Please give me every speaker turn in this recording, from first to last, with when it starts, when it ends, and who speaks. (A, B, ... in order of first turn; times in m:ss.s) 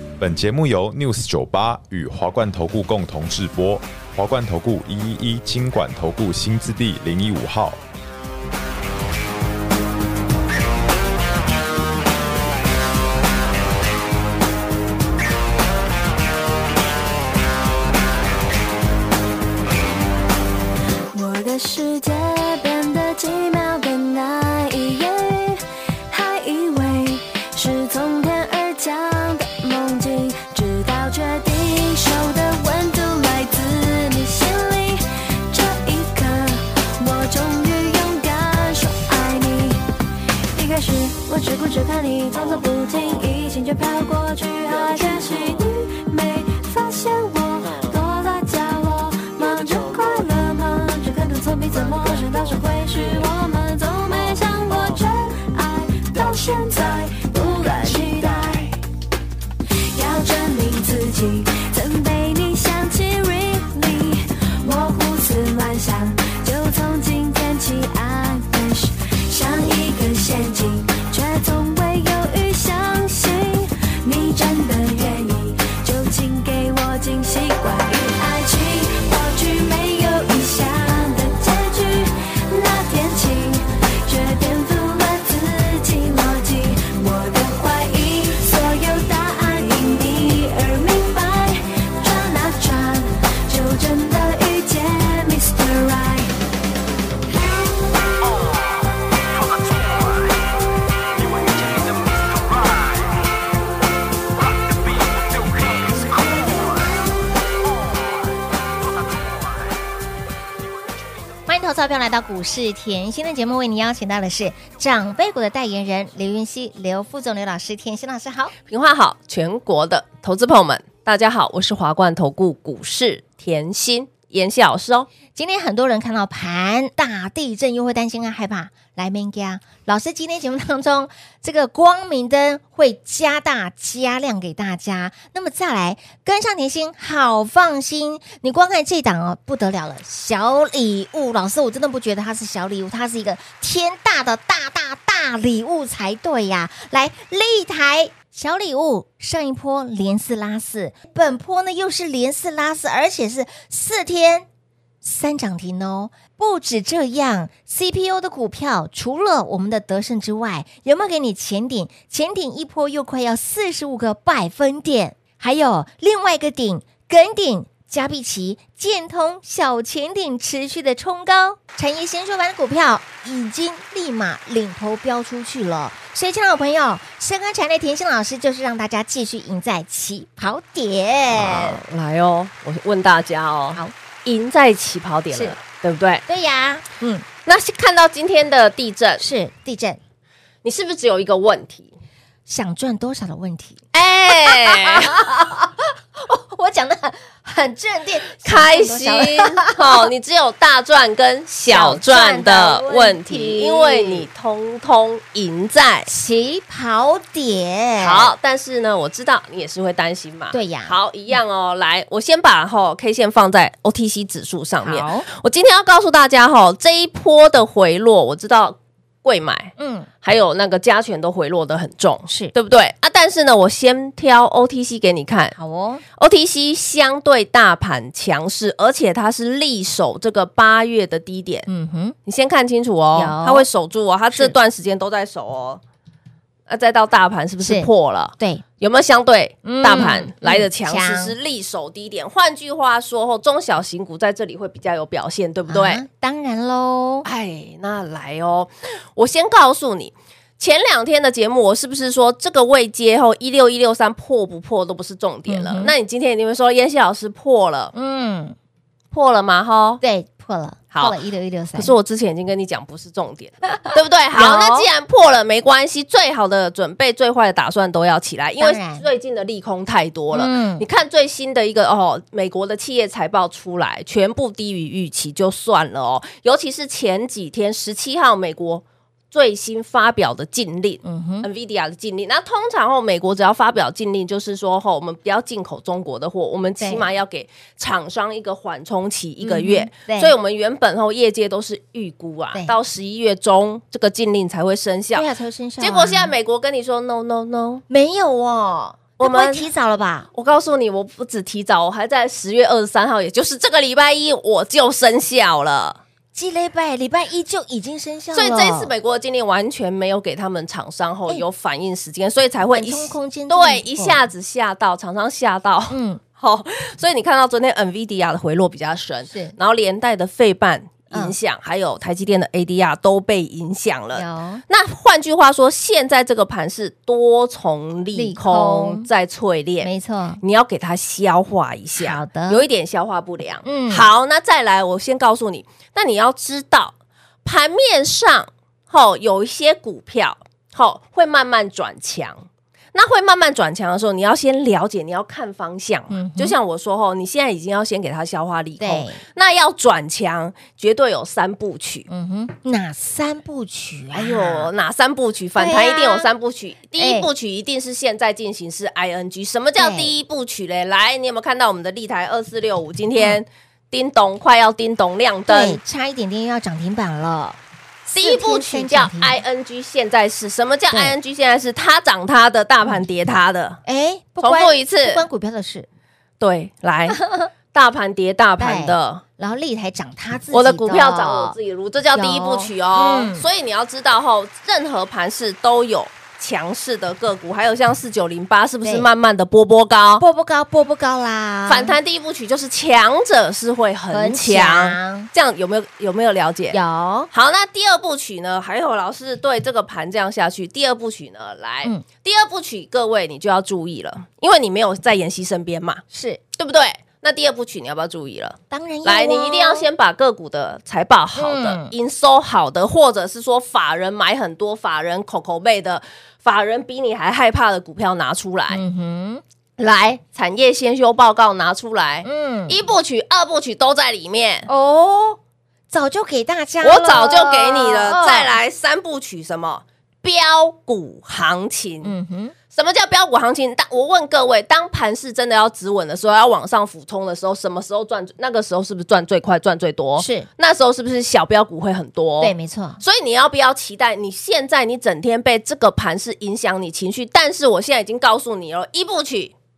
0:00.2-0:07.8 A
0:21.1-0:39.8 B
0:40.5-0:58.7 B
0:59.9-1:36.3 B
1:51.5-1:58.5 C
1:58.7-2:05.1 D
2:05.3-2:34.5 C
2:35.0-3:01.8 C
3:01.3-3:06.2 D
3:05.3-3:05.6 C
3:06.3-3:07.2 C
3:07.5-3:09.2 D
3:09.2-3:10.0 C
3:10.6-3:11.9 D
3:12.5-3:20.1 C
3:13.9-3:15.2 D
3:18.4-3:26.1 D
3:21.7-3:24.3 C
3:26.1-3:28.3 C
3:28.0-3:45.6 D
3:30.5-3:31.0 C
3:34.8-3:35.3 C
3:39.8-3:40.1 C
3:42.3-3:42.5 C
3:45.6-3:46.0 C
3:46.2-3:51.7 D
3:51.7-3:52.2 C
3:52.2-3:55.8 D
3:53.2-3:53.7 C
3:56.7-4:06.0 D
3:57.6-3:58.6 C
3:59.6-4:01.4 C
4:05.7-4:07.3 C
4:07.2-4:17.9 D
4:15.5-4:15.9 C
4:17.9-4:18.6 C
4:19.1-4:20.0 D
4:20.0-4:21.9 C
4:20.9-4:21.2 D
4:21.8-4:55.3 D
4:24.3-4:24.9 C
4:28.6-4:29.0 C
4:30.3-4:30.8 C
4:41.0-4:41.5 C
4:46.8-4:47.1 C
4:49.4-4:50.3 C
4:55.1-4:56.3 C
4:55.8-4:57.8 D
4:57.9-5:00.3 C
4:59.2-4:59.7 D
5:00.3-5:06.0 D
5:06.3-5:08.9 C
5:08.3-5:29.9 D
5:12.7-5:14.2 C
5:15.9-5:16.2 C
5:19.3-5:19.6 C
5:24.2-5:24.6 C
5:28.2-5:29.1 C
5:29.8-5:30.4 C
5:30.4-5:36.9 D
5:32.0-5:32.7 C
5:33.6-5:34.1 C
5:37.4-5:52.1 D
5:46.1-5:46.6 C
5:48.8-5:49.2 C
5:52.1-5:54.7 C
5:54.1-6:05.8 D
5:55.6-5:56.3 C
5:57.0-5:57.3 C
5:59.8-6:00.2 C
6:03.2-6:03.4 C
6:05.5-6:09.4 C
6:08.1-6:13.8 D
6:10.9-6:11.2 C
6:13.9-6:15.9 C
6:14.4-6:15.2 D
6:16.4-6:19.2 D
6:17.2-6:17.5 C
6:18.6-6:21.6 C
6:20.5-6:30.2 D
6:22.1-6:23.5 C
6:28.8-6:29.1 C
6:30.2-6:32.0 C
6:31.7-6:36.8 D
6:34.1-6:35.3 C
6:36.7-6:37.3 C
6:37.3-6:46.0 D
6:46.1-6:46.4 C
6:46.6-6:58.8 D
6:48.7-6:49.9 C
6:51.4-6:51.9 C
6:58.7-6:59.4 C
6:59.8-7:04.7 D
7:02.2-7:02.8 C
7:04.7-7:05.4 C
7:05.9-7:08.5 C
7:06.8-7:12.1 D
7:12.0-7:12.5 C
7:12.7-7:29.5 D
7:20.2-7:20.5 C
7:22.4-7:23.0 C